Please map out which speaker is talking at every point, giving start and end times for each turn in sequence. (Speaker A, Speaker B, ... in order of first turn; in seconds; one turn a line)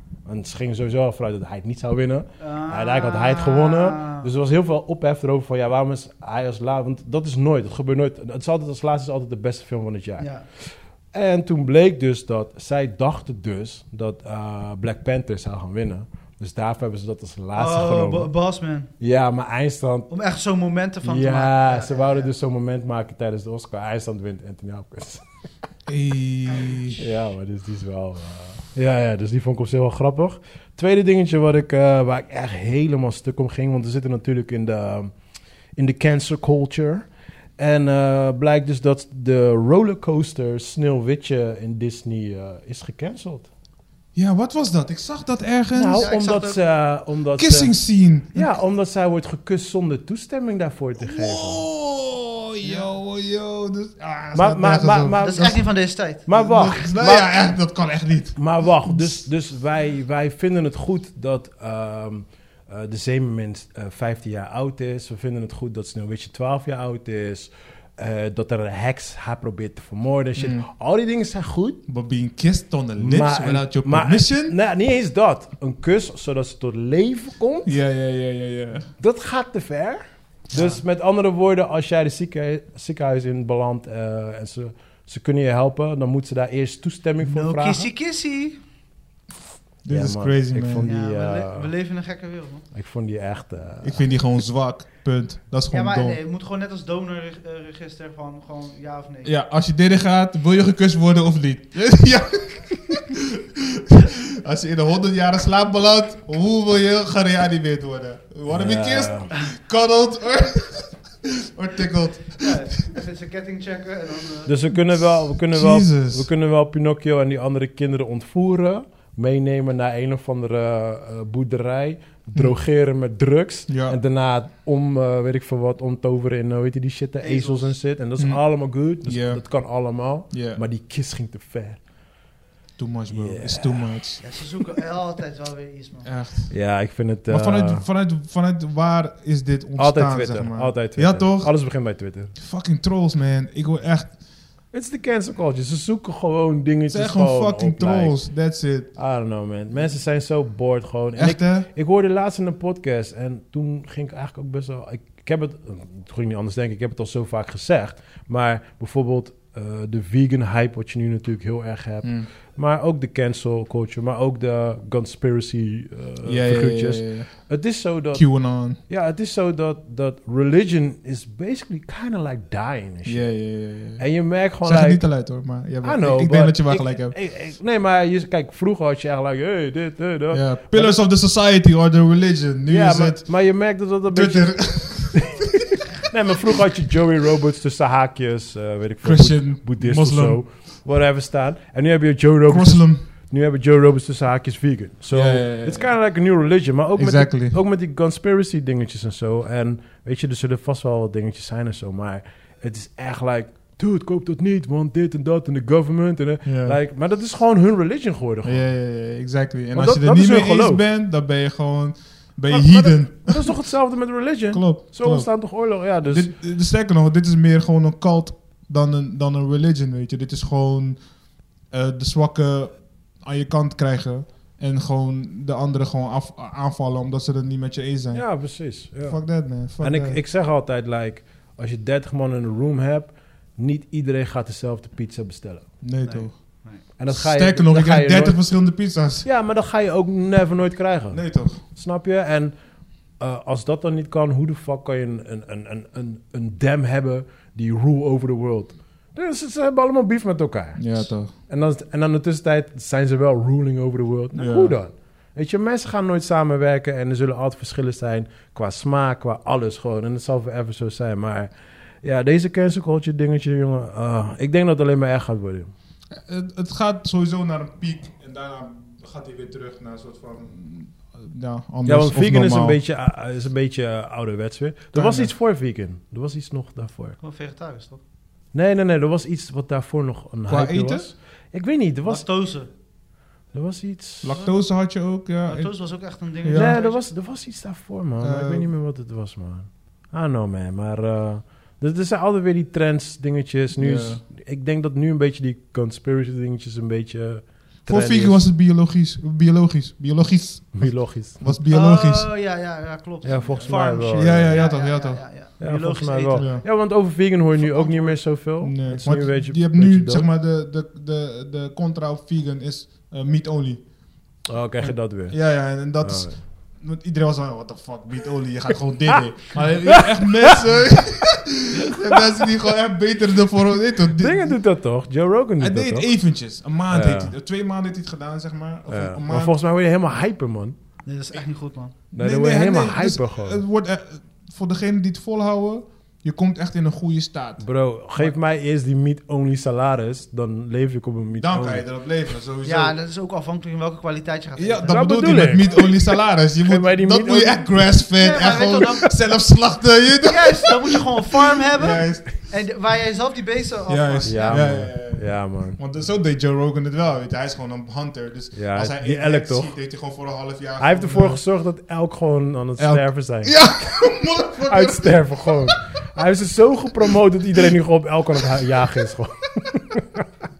Speaker A: 0.3-18.3
Speaker B: 2.4-4.3
Speaker B: 10.2-10.5
Speaker B: 17.6-18.9
Speaker A: 19.0-20.1
Speaker B: 20.1-22.3
Speaker A: 21.0-25.2
Speaker C: 25.9-27.0
Speaker A: 27.0-35.1
Speaker A: 35.8-43.5
Speaker C: 44.1-46.1
Speaker A: 45.7-47.8
Speaker B: 46.0-46.6
Speaker C: 47.4-48.6
Speaker A: 48.3-51.7
Speaker C: 51.0-55.6
Speaker A: 54.3-55.6
Speaker B: 55.2-56.2
Speaker A: 56.2-57.3
Speaker C: 56.3-59.2
Speaker A: 58.4-71.8
Speaker C: 70.3-70.7
Speaker C: 71.9-74.5
Speaker A: 73.0-77.7
Speaker C: 77.7-78.9
Speaker A: 79.0-87.9
Speaker B: 87.2-88.6
Speaker C: 89.8-90.9
Speaker A: 89.9-91.7
Speaker B: 90.8-92.7
Speaker A: 92.7-94.1
Speaker C: 93.8-96.2
Speaker B: 95.7-99.3
Speaker C: 99.2-112.7
Speaker A: 108.5-109.3
Speaker B: 112.4-114.5
Speaker A: 114.5-131.8
Speaker C: 114.7-116.3
Speaker C: 123.7-124.0
Speaker B: 127.2-127.8
Speaker C: 128.2-128.4
Speaker C: 129.0-129.4
Speaker C: 130.3-130.6
Speaker C: 132.8-134.3
Speaker A: 133.1-134.0
Speaker B: 134.2-136.1
Speaker C: 136.0-136.6
Speaker A: 136.5-137.8
Speaker C: 137.3-141.8
Speaker A: 139.8-142.3
Speaker C: 142.3-144.2
Speaker A: 144.7-148.2
Speaker C: 146.9-149.0
Speaker A: 148.9-173.4
Speaker C: 151.2-151.7
Speaker C: 162.0-162.3
Speaker C: 166.2-167.5
Speaker C: 168.1-168.8
Speaker C: 173.1-174.1
Speaker A: 174.0-175.2
Speaker C: 174.6-177.2
Speaker A: 175.8-181.0
Speaker C: 180.3-183.5
Speaker A: 182.7-185.4
Speaker C: 184.1-185.4
Speaker A: 186.0-208.7
Speaker C: 189.0-190.4
Speaker C: 192.5-193.0
Speaker C: 195.1-196.0
Speaker C: 197.0-197.6
Speaker C: 206.4-206.8
Speaker C: 208.4-213.5
Speaker A: 209.7-210.8
Speaker A: 212.5-216.3
Speaker C: 214.5-228.5
Speaker A: 228.1-235.7
Speaker C: 229.0-230.2
Speaker C: 235.8-239.3
Speaker B: 236.0-236.8
Speaker A: 237.0-238.5
Speaker A: 239.2-242.6
Speaker C: 241.1-241.6
Speaker A: 243.1-261.5
Speaker C: 250.8-251.3
Speaker C: 254.3-254.8
Speaker A: 262.0-265.7
Speaker C: 266.1-272.8
Speaker A: 271.9-277.2
Speaker C: 274.9-275.3
Speaker B: 277.2-278.0
Speaker A: 278.5-282.2
Speaker C: 280.5-281.1
Speaker B: 282.1-282.7
Speaker A: 283.5-284.4
Speaker C: 284.2-285.8
Speaker B: 285.5-287.1
Speaker C: 286.4-286.8
Speaker A: 286.5-298.5
Speaker C: 288.2-288.7
Speaker C: 293.8-294.2
Speaker C: 297.9-302.3
Speaker A: 300.8-301.4
Speaker B: 301.7-306.5
Speaker A: 303.2-304.6
Speaker C: 303.6-305.3
Speaker A: 305.6-310.3
Speaker C: 306.3-306.9
Speaker C: 307.5-324.6
Speaker A: 314.5-316.4
Speaker A: 319.9-320.6
Speaker A: 324.2-326.1
Speaker C: 325.6-329.6
Speaker A: 326.9-327.3
Speaker A: 328.9-330.8
Speaker B: 331.1-331.9
Speaker C: 332.1-338.4
Speaker A: 332.1-333.6
Speaker A: 337.6-341.8
Speaker C: 341.4-343.0
Speaker B: 342.6-345.2
Speaker C: 344.6-352.3
Speaker A: 344.9-345.9
Speaker A: 346.6-347.9
Speaker B: 348.1-349.2
Speaker B: 350.2-354.8
Speaker C: 353.9-361.4
Speaker A: 354.2-355.8
Speaker A: 358.5-359.8
Speaker A: 360.8-364.1
Speaker C: 362.8-365.8
Speaker A: 364.6-370.3